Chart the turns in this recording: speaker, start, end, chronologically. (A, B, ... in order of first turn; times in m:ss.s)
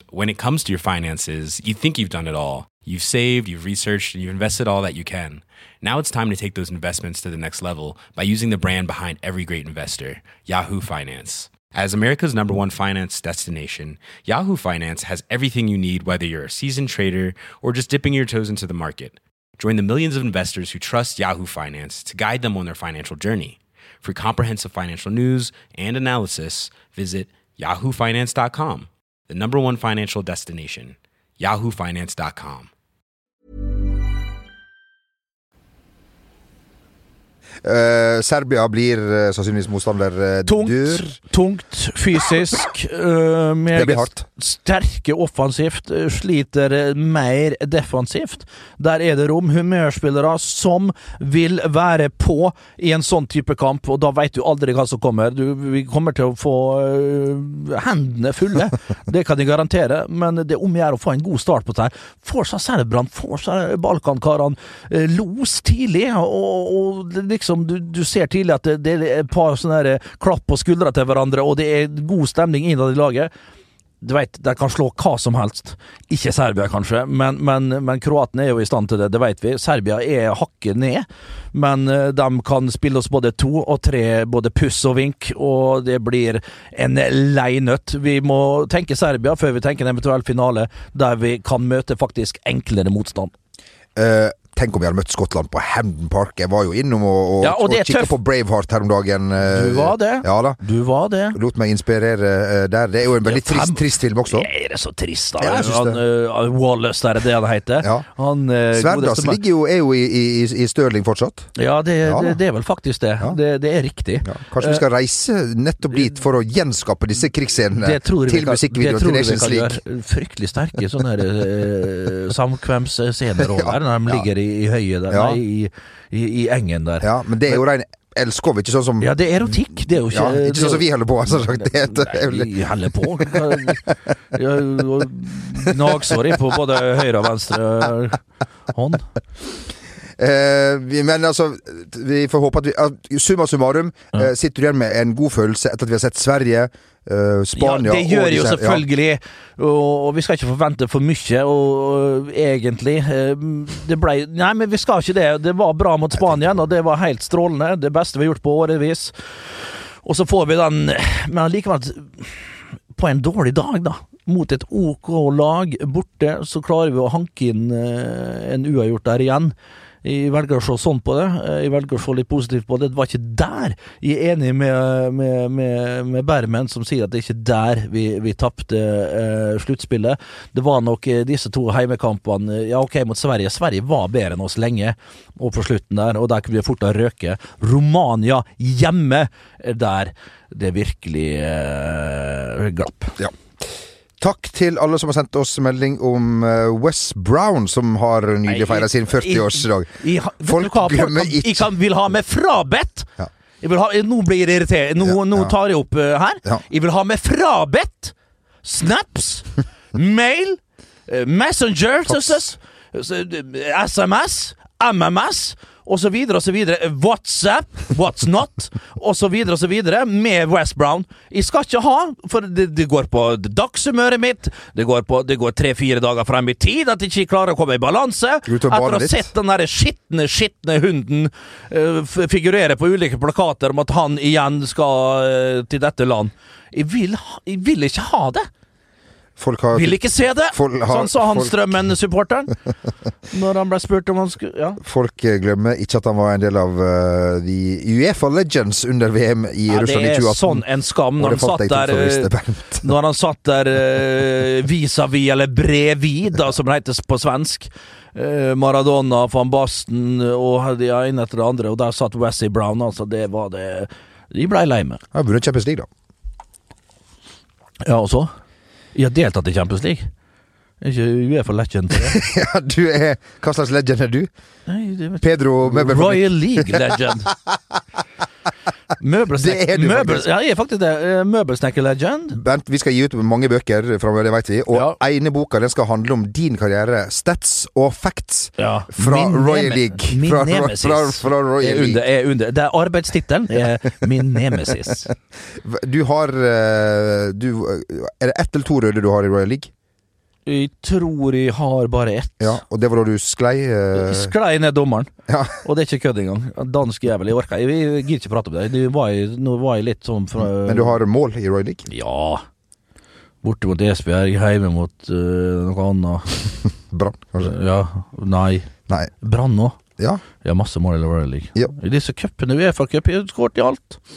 0:00.1-0:32.7 A
0:37.6-0:41.2 B
0:40.4-1:13.3 C
0:43.7-0:44.2 B
1:14.0-1:33.3 C
1:34.0-1:40.6 B
1:37.4-1:38.1 C
1:39.5-1:41.4 C
1:41.3-1:44.5 B
1:43.2-1:49.4 C
1:45.4-1:46.0 B
1:48.7-1:51.5 B
1:51.6-1:54.8 C
1:52.0-1:52.4 B
1:54.2-1:59.8 B
1:57.8-2:07.6 C
2:03.4-2:04.2 B
2:05.1-2:05.4 B
2:07.0-2:09.1 B
2:09.0-2:19.1 C
2:10.1-2:12.5 B
2:13.3-2:13.5 B
2:20.2-2:28.8 B
2:27.5-2:39.1 C
2:36.1-2:36.6 B
2:40.0-3:13.2 C
3:14.2-3:21.7 B
3:18.4-3:23.1 C
3:23.6-3:58.5 C
3:25.0-3:25.5 B
3:32.1-3:32.5 B
3:48.4-3:49.3 B
3:59.4-4:01.7 B
3:59.7-4:02.5 C
4:03.3-4:04.8 C
4:04.8-4:10.6 B
4:09.7-4:25.0 C
4:11.2-4:12.9 B
4:25.1-4:25.9 B
4:27.8-4:28.3 C
4:28.9-4:30.1 C
4:30.8-4:32.2 C
4:32.0-4:34.3 B
4:34.7-4:37.3 C
4:35.2-4:37.5 B
4:39.0-4:42.4 C
4:39.4-4:40.3 B
4:42.3-4:52.0 B
4:44.7-4:45.0 C
4:48.6-4:55.1 C
4:55.6-4:59.7 B
5:00.4-5:02.6 C
5:02.4-5:04.3 B
5:03.9-5:05.1 C
5:05.3-5:05.6 B
5:05.6-5:11.0 C
5:10.4-5:11.8 B
5:11.9-5:12.4 C
5:13.4-5:16.4 C
5:16.9-5:17.5 B
5:17.4-5:18.7 C
5:19.2-5:19.8 C
5:20.4-5:24.0 C